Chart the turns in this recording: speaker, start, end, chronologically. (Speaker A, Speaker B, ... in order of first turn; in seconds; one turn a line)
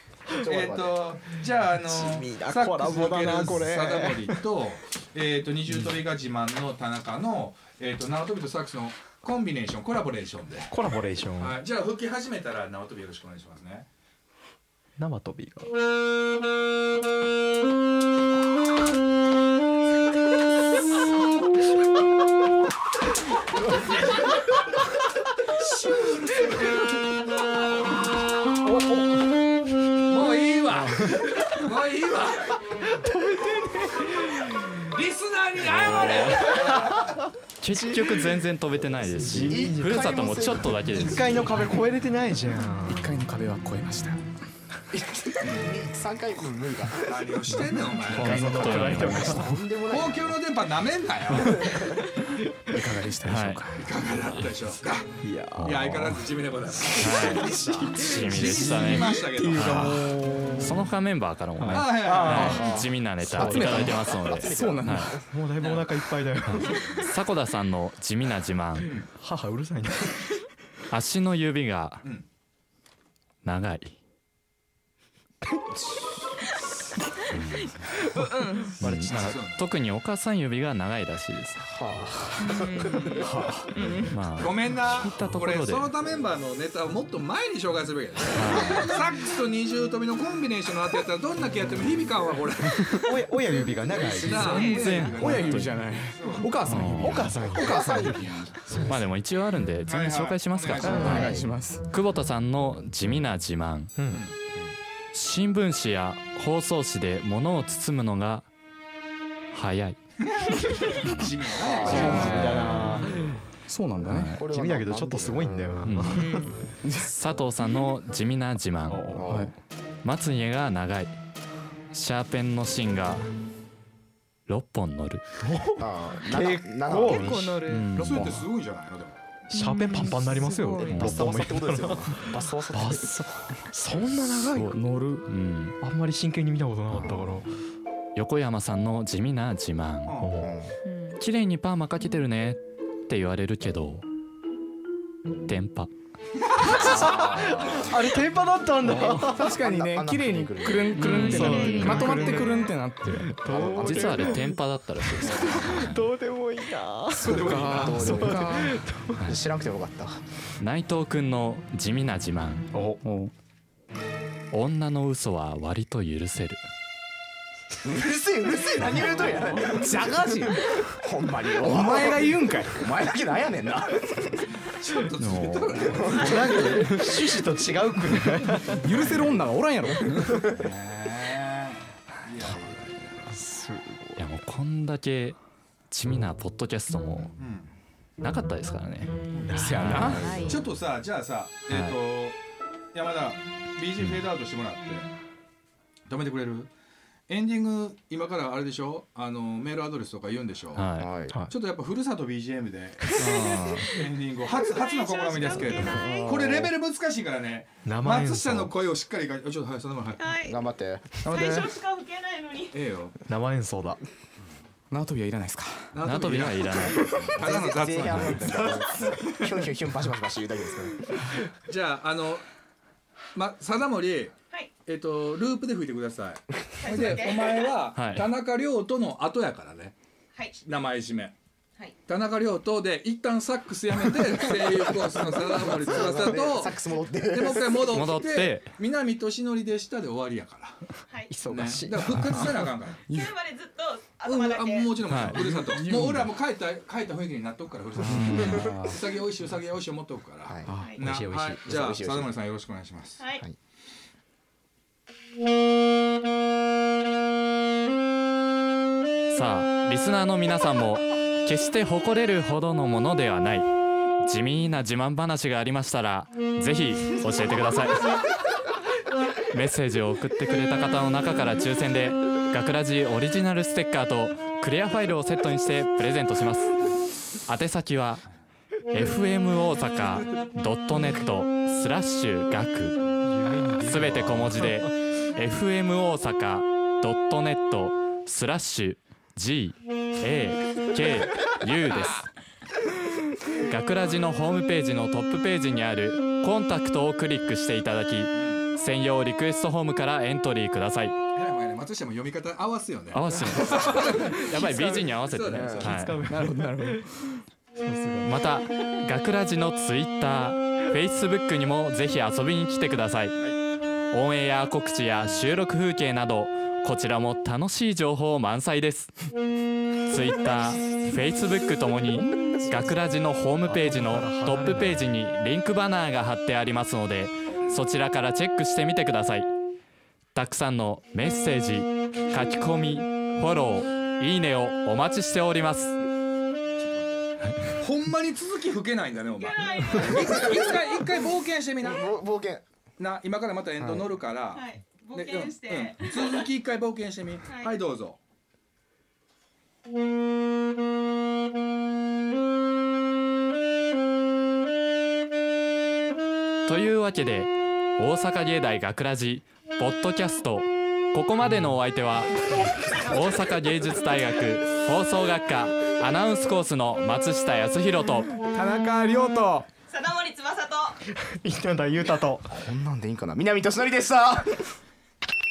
Speaker A: 0.3-1.2
Speaker B: 0.4-10.8
Speaker C: 1.8-4.4
Speaker C: 10.7-11.6
Speaker B: 11.3-13.9
Speaker C: 15.0-15.7
Speaker B: 25.6-26.9
Speaker B: 30.1-32.6
Speaker C: 31.2-31.5
Speaker C: 32.9-34.5
Speaker B: 34.8-37.1
Speaker D: 35.6-36.6
Speaker C: 36.5-37.1
Speaker D: 37.6-41.6
Speaker C: 37.7-38.4
Speaker C: 39.1-43.1
Speaker A: 39.4-41.3
Speaker E: 42.9-44.2
Speaker A: 44.9-47.1
Speaker B: 47.0-49.0
Speaker C: 48.0-49.6
Speaker D: 48.1-49.5
Speaker A: 49.0-50.4
Speaker B: 49.8-51.9
Speaker A: 51.6-52.0
Speaker E: 52.7-53.9
Speaker D: 53.2-53.7
Speaker B: 53.7-60.2
Speaker C: 55.2-55.8
Speaker D: 55.6-56.2
Speaker C: 56.9-60.9
Speaker D: 56.9-60.0
Speaker D: 60.6-65.2
Speaker C: 61.6-62.8
Speaker B: 61.7-62.8
Speaker A: 62.3-65.3
Speaker E: 63.2-65.2
Speaker C: 65.3-66.8
Speaker B: 65.6-66.0
Speaker D: 66.4-69.0
Speaker B: 66.6-67.0
Speaker C: 69.1-70.3
Speaker D: 70.9-72.0
Speaker D: 73.4-74.0
Speaker D: 77.3-77.8
Speaker F: 77.6-78.8
Speaker D: 78.8-81.7
Speaker C: 78.8-79.3
Speaker B: 79.0-79.7
Speaker A: 81.7-83.5
Speaker F: 82.4-84.2
Speaker D: 84.1-85.9
Speaker B: 84.4-96.7
Speaker D: 88.3-89.0
Speaker C: 93.0-94.8
Speaker D: 94.3-95.7
Speaker F: 94.3-95.2
Speaker E: 95.1-98.4
Speaker C: 96.4-99.0
Speaker D: 96.6-97.3
Speaker B: 97.5-98.3
Speaker A: 97.6-98.8
Speaker D: 98.8-101.3
Speaker B: 99.9-101.4
Speaker E: 100.8-101.8
Speaker C: 100.8-101.3
Speaker A: 100.9-101.5
Speaker D: 101.9-103.9
Speaker C: 104.0-104.2
Speaker D: 105.1-108.5
Speaker D: 109.5-110.0
Speaker B: 110.3-112.9
Speaker A: 111.5-112.7
Speaker C: 111.8-113.3
Speaker E: 113.7-114.4
Speaker D: 114.0-114.4
Speaker A: 114.1-116.0
Speaker C: 114.5-116.5
Speaker D: 115.8-119.1
Speaker F: 116.1-116.5
Speaker E: 116.8-117.1
Speaker C: 118.9-119.2
Speaker A: 119.1-119.5
Speaker E: 119.2-119.5
Speaker D: 120.0-121.1
Speaker D: 121.9-123.2
Speaker D: 124.5-125.2
Speaker C: 125.4-128.3
Speaker A: 125.8-127.5
Speaker F: 126.9-128.0
Speaker D: 127.7-128.5
Speaker B: 127.9-129.2
Speaker F: 129.5-131.1
Speaker C: 129.5-134.6
Speaker A: 130.8-133.3
Speaker D: 130.9-131.3
Speaker E: 134.0-135.3
Speaker D: 134.5-135.8
Speaker C: 135.8-137.5
Speaker D: 138.1-140.2
Speaker B: 140.0-140.4
Speaker C: 140.2-140.6
Speaker A: 140.4-140.7
Speaker F: 140.8-141.2
Speaker D: 141.2-144.1
Speaker D: 145.4-145.9
Speaker B: 146.6-147.9
Speaker C: 146.6-149.5
Speaker D: 146.8-147.3
Speaker E: 148.8-153.4
Speaker A: 148.9-151.2
Speaker F: 151.0-152.7
Speaker C: 151.0-154.5
Speaker A: 153.5-154.4
Speaker D: 153.8-156.0
Speaker A: 155.1-155.7
Speaker C: 155.1-159.2
Speaker E: 157.2-158.8
Speaker A: 157.2-158.7
Speaker B: 157.3-158.1
Speaker A: 159.2-160.2
Speaker D: 160.6-162.7
Speaker C: 162.7-163.0
Speaker E: 163.0-163.3
Speaker D: 164.5-166.6
Speaker A: 167.8-174.5
Speaker E: 169.7-170.5
Speaker E: 171.6-172.9
Speaker B: 174.7-177.4
Speaker D: 175.2-176.2
Speaker C: 176.0-178.8
Speaker E: 178.5-180.4
Speaker B: 178.9-179.4
Speaker C: 180.1-180.6
Speaker B: 180.3-183.1
Speaker C: 183.3-184.2
Speaker D: 184.2-185.4
Speaker D: 185.9-187.3
Speaker B: 187.3-187.7
Speaker D: 188.2-190.6
Speaker B: 189.3-192.4
Speaker C: 189.5-190.4
Speaker E: 189.5-190.3
Speaker F: 190.1-190.7
Speaker D: 191.7-192.0
Speaker B: 192.9-195.1
Speaker D: 194.0-194.2
Speaker B: 196.1-196.7
Speaker B: 197.3-210.4
Speaker D: 200.7-201.1
Speaker A: 201.0-201.4
Speaker D: 203.2-203.7
Speaker C: 203.2-203.5
Speaker F: 203.2-203.8
Speaker F: 204.5-206.4
Speaker A: 205.7-206.7
Speaker C: 207.8-208.7
Speaker F: 210.2-210.6
Speaker A: 210.4-211.2
Speaker E: 211.2-211.7
Speaker F: 211.2-212.8
Speaker B: 212.7-213.2
Speaker C: 213.2-214.0
Speaker E: 214.9-215.9
Speaker B: 215.9-218.8
Speaker D: 216.0-217.3
Speaker A: 217.3-221.2
Speaker D: 218.0-218.4
Speaker B: 221.7-222.4
Speaker B: 223.3-224.3
Speaker B: 224.8-229.9
Speaker F: 226.8-227.7
Speaker D: 227.9-228.3
Speaker B: 230.6-231.3
Speaker B: 232.1-240.9
Speaker A: 235.5-237.9
Speaker D: 237.9-238.7
Speaker F: 241.1-241.3
Speaker C: 241.3-242.6
Speaker B: 241.4-243.0
Speaker E: 243.1-243.3
Speaker F: 243.1-245.0
Speaker B: 244.2-253.2
Speaker D: 245.1-245.4
Speaker E: 245.3-246.2
Speaker D: 248.0-248.8
Speaker E: 248.1-248.6
Speaker E: 250.7-251.0
Speaker F: 250.7-251.0
Speaker C: 250.9-251.6
Speaker A: 251.6-252.3
Speaker D: 259.3-268.3
Speaker D: 269.5-278.3
Speaker D: 278.9-283.1
Speaker C: 283.2-284.9
Speaker D: 283.8-292.3
Speaker D: 293.6-301.2
Speaker B: 298.3-298.6
Speaker B: 301.3-305.9
Speaker D: 303.1-306.2
Speaker C: 304.0-305.1
Speaker A: 305.5-305.9
Speaker C: 305.8-307.0
Speaker E: 306.2-307.4
Speaker C: 307.8-308.4
Speaker D: 308.2-313.5
Speaker D: 314.1-319.1
Speaker D: 320.1-329.5
Speaker E: 322.1-322.9
Speaker C: 323.6-325.1
Speaker D: 330.3-336.0
Speaker D: 337.4-337.8
Speaker B: 337.8-342.1
Speaker F: 339.3-340.8
Speaker A: 341.8-342.6
Speaker B: 343.0-348.2
Speaker F: 344.5-346.5
Speaker F: 347.4-347.8
Speaker D: 356.6-368.3
Speaker F: 362.5-363.3
Speaker E: 368.5-369.7
Speaker F: 369.9-371.0
Speaker C: 371.3-372.5
Speaker A: 372.5-374.7